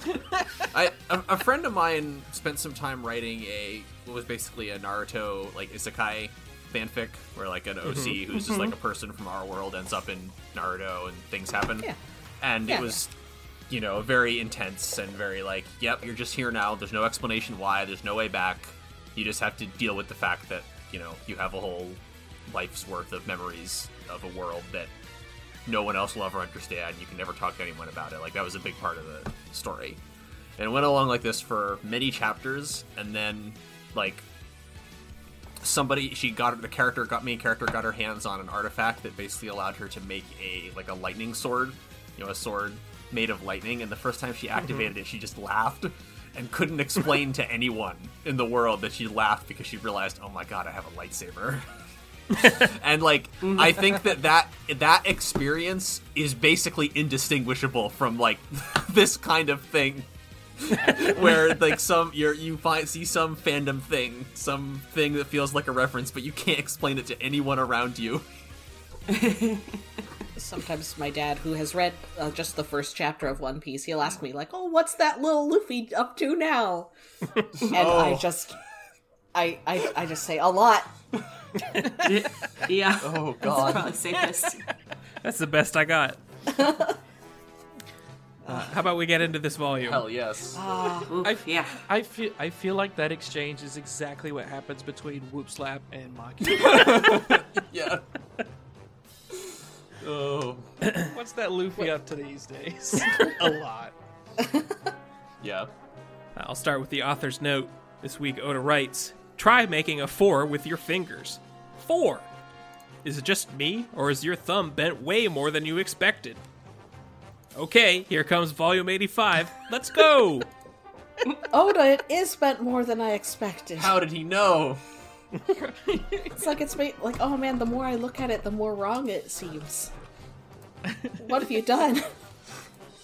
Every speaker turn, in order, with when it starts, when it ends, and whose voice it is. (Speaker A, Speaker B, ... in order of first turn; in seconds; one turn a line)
Speaker A: 0.7-13.1
Speaker B: 7.8-8.2
Speaker C: 8.3-8.7
Speaker D: 12.7-13.0
Speaker A: 13.7-24.9
Speaker A: 25.6-30.0
Speaker A: 30.6-34.2
Speaker A: 35.6-51.6
Speaker A: 52.3-68.2
Speaker C: 53.4-54.0
Speaker C: 69.1-69.8
Speaker D: 70.3-76.9
Speaker D: 77.6-78.6
Speaker A: 77.7-78.3
Speaker D: 79.3-80.9
Speaker C: 81.9-84.6
Speaker A: 83.0-83.9
Speaker B: 85.2-86.2
Speaker D: 86.5-87.0
Speaker D: 88.4-88.8
Speaker B: 88.5-90.1
Speaker A: 89.8-90.8
Speaker D: 90.5-91.1
Speaker C: 91.1-91.8
Speaker E: 91.2-97.4
Speaker A: 96.5-98.0
Speaker A: 100.0-100.7
Speaker B: 100.8-101.1
Speaker E: 100.9-103.9
Speaker D: 104.4-104.7
Speaker A: 105.4-105.7
Speaker B: 106.3-112.3
Speaker B: 113.0-116.4
Speaker B: 117.5-120.5
Speaker D: 121.5-124.0
Speaker A: 123.8-124.8
Speaker E: 125.5-126.5
Speaker D: 126.3-129.9
Speaker E: 130.8-131.2
Speaker D: 131.2-132.1